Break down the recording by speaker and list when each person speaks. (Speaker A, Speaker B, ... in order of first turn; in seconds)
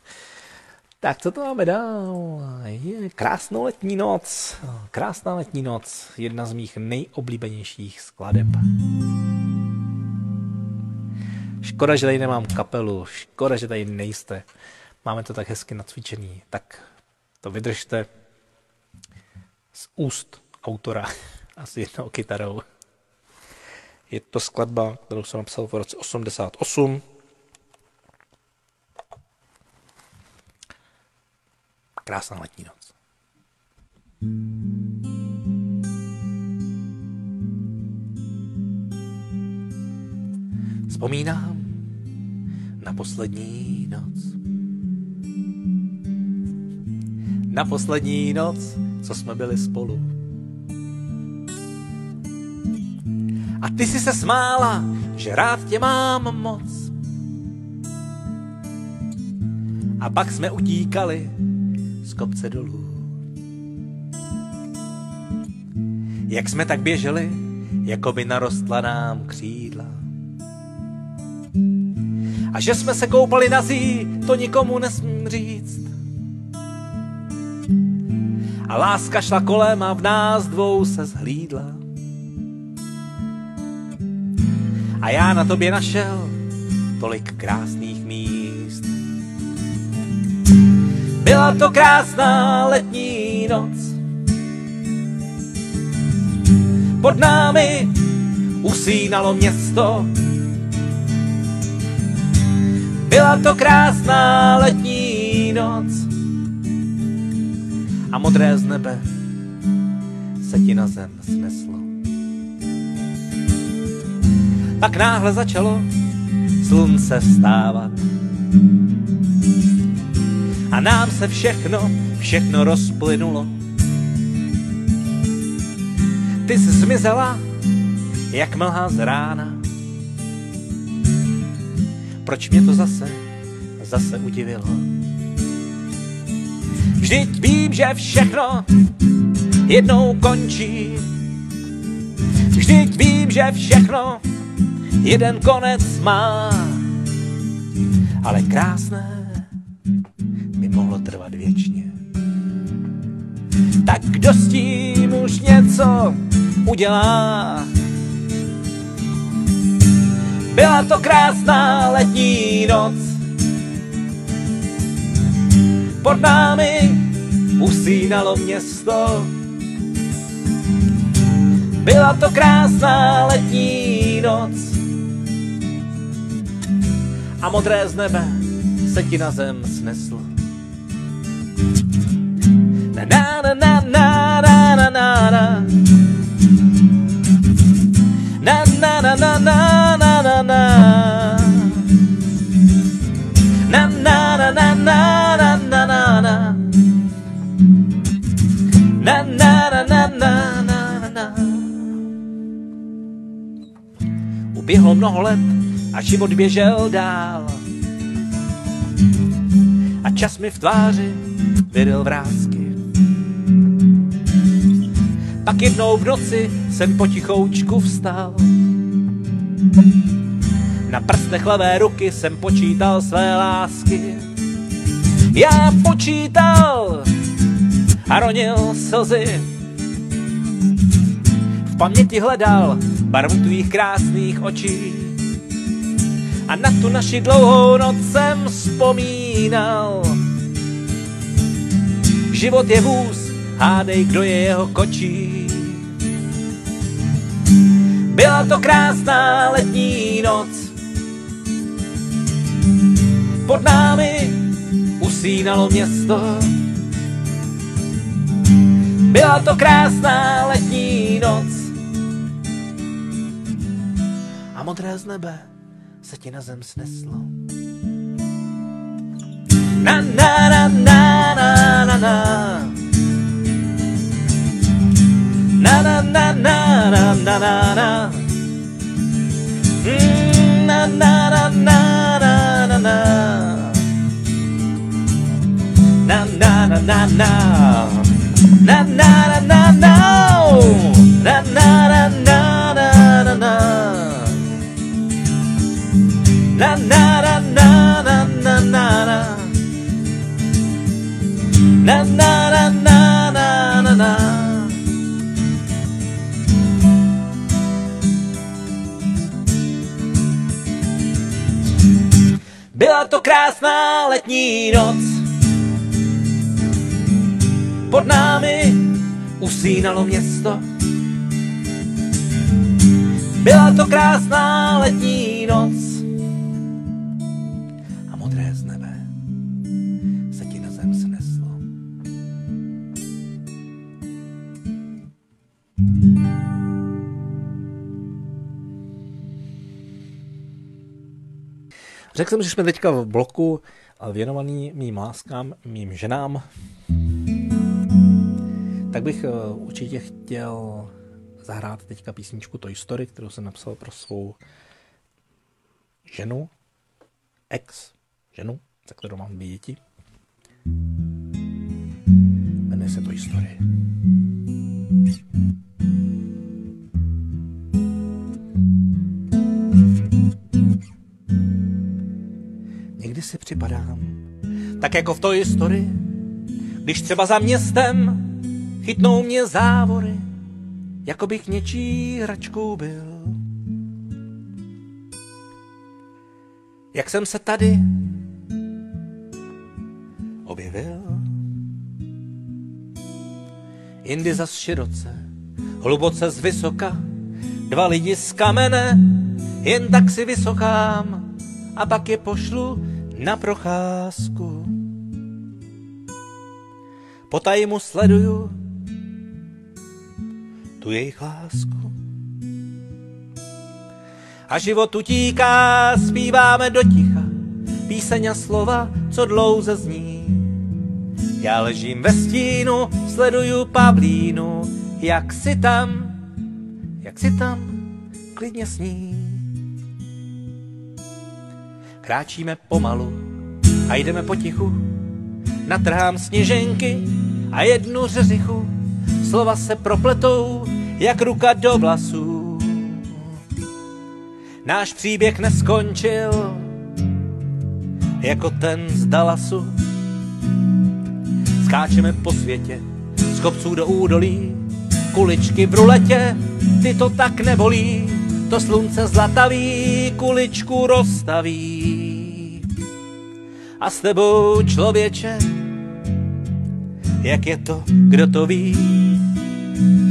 Speaker A: 1.0-8.7, 11.6-14.4, 15.0-16.9, 17.4-18.1, 19.7-22.6, 24.1-27.1, 32.0-32.9, 40.9-41.9, 42.8-44.4, 47.5-50.1, 53.6-57.0, 60.0-61.3, 62.0-63.2, 66.3-70.0, 72.5-75.9, 78.7-81.8, 85.0-86.4, 87.0-88.9, 91.2-94.0, 97.0-98.1, 98.6-100.1, 103.0-106.1, 108.1-109.0, 110.4-111.9, 114.8-115.9, 116.6-118.0, 120.7-123.5, 126.4-127.4, 128.3-129.6, 132.2-133.2, 133.8-134.9, 137.0-138.7, 139.6-141.1, 142.5-144.2, 145.0-146.9, 148.2-149.5, 150.6-151.9, 153.8-157.7, 160.5-163.2, 166.0-169.3, 171.8-174.8, 177.4-180.3, 182.9-185.8, 188.4-191.9, 193.6-196.7, 198.8-201.9, 204.5-207.6, 210.0-212.8, 215.4-218.6, 220.9-224.3, 225.3-227.1, 228.1-229.5, 231.7-235.2, 236.5-240.2, 242.3-245.9, 248.1-250.7, 253.4-256.7, 259.0-261.8, 264.5-265.5, 266.0-267.4, 269.8-272.8, 275.5-278.3, 279.8-283.9, 286.0-294.6, 296.5-299.6, 301.7-304.8, 312.7-315.3, 317.9-320.6, 323.4-326.1, 328.1-329.1, 330.3-331.6, 342.1-346.4, 348.9-354.4, 356.1-356.5, 357.5-359.8, 362.7-363.6, 373.0-374.2, 374.8-376.1, 376.8-380.2, 381.1-383.4, 386.9-388.1, 390.4-391.3, 394.0-395.2, 395.8-397.0, 397.7-404.9, 407.3-408.6, 410.8-411.9, 414.5-417.4, 417.9-420.7, 421.4-426.2, 427.0-429.5, 432.0-433.3, 433.9-435.0, 435.6-443.3, 444.6-446.8, 448.2-449.8, 451.6-462.7, 463.8-465.7, 467.2-469.3